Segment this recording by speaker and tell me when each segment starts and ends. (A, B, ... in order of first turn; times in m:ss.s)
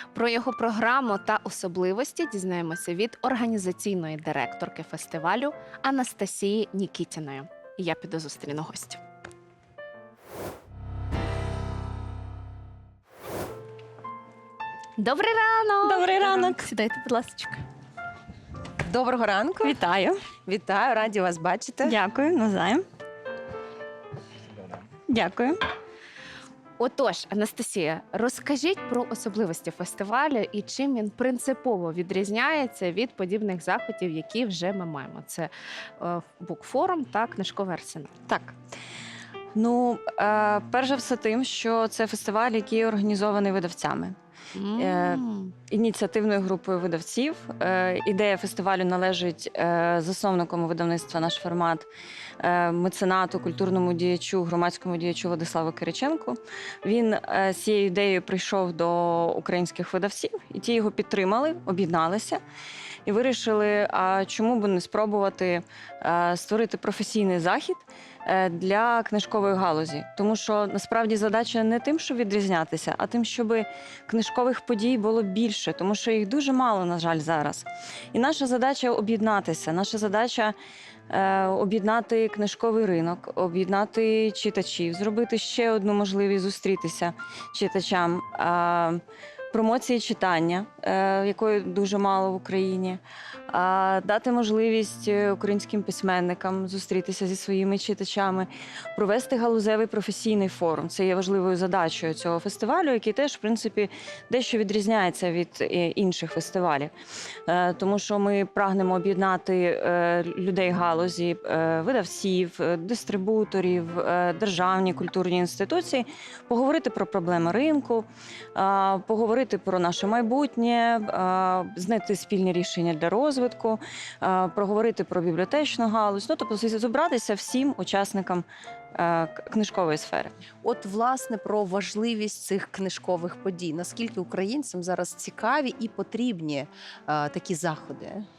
0:00.1-0:09.0 A
0:15.0-0:17.6 A
0:15.8-0:16.6 B
0:18.8-0:19.8 C
0:19.6-0:20.2 B
0:20.5-0:22.0 C
0:21.8-0:22.8 B
0:25.1-0:25.6 B
0:26.8-0:38.1 A
0:38.3-0:38.6 B
0:39.6-0:44.2 B
0:44.6-0:45.5 A
0:44.8-0:51.9 B
0:52.4-1:02.4 B
1:03.1-1:20.6 B
1:21.1-1:46.9 B
1:47.5-2:08.4 B
2:09.0-2:10.3 B
2:10.6-2:18.3 C